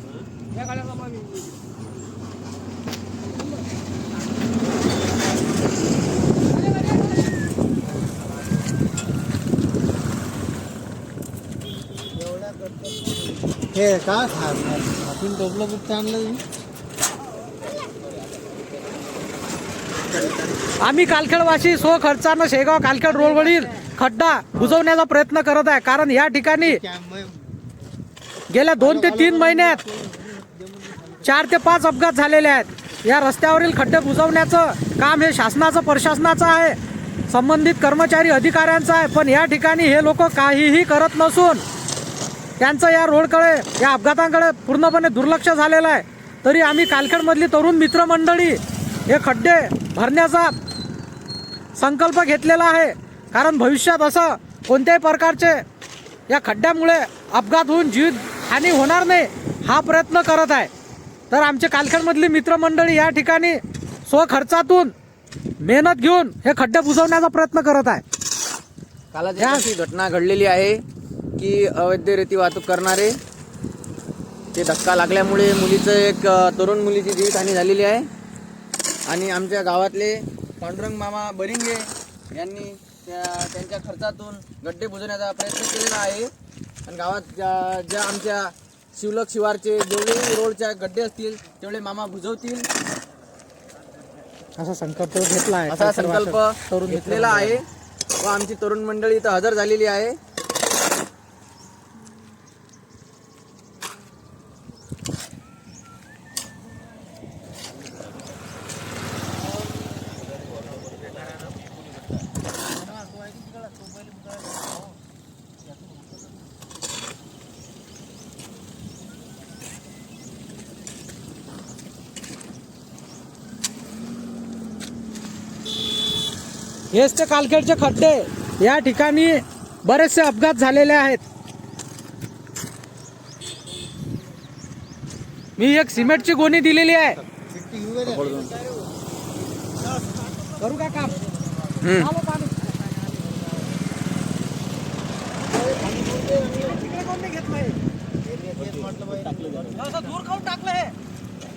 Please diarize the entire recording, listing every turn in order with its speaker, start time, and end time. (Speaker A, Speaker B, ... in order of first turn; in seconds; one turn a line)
Speaker A: 0.7-1.1
Speaker B: 12.3-13.1
Speaker B: 13.7-16.4
Speaker A: 20.8-26.8
Speaker B: 26.7-27.5
Speaker A: 28.5-29.9
Speaker B: 28.9-31.1
Speaker A: 31.2-36.8
Speaker A: 37.3-41.6
Speaker A: 42.6-50.5
Speaker A: 51.8-55.6
Speaker A: 56.3-60.7
Speaker A: 61.3-64.9
Speaker A: 65.6-68.0
Speaker C: 69.1-70.8
Speaker A: 69.4-69.7
Speaker C: 71.4-73.2
Speaker C: 74.5-78.1
Speaker C: 79.1-86.3
Speaker C: 86.9-92.7
Speaker A: 94.6-97.6
Speaker C: 95.7-97.6
Speaker C: 98.2-100.2
Speaker B: 113.0-114.2
Speaker A: 126.9-131.2
Speaker A: 135.6-137.2
Speaker B: 137.3-138.5
Speaker C: 138.1-138.6
Speaker A: 140.6-141.2
Speaker C: 141.8-142.1
Speaker A: 141.9-142.9
Speaker A: 146.5-147.8
Speaker B: 148.4-149.6
Speaker A: 149.7-150.9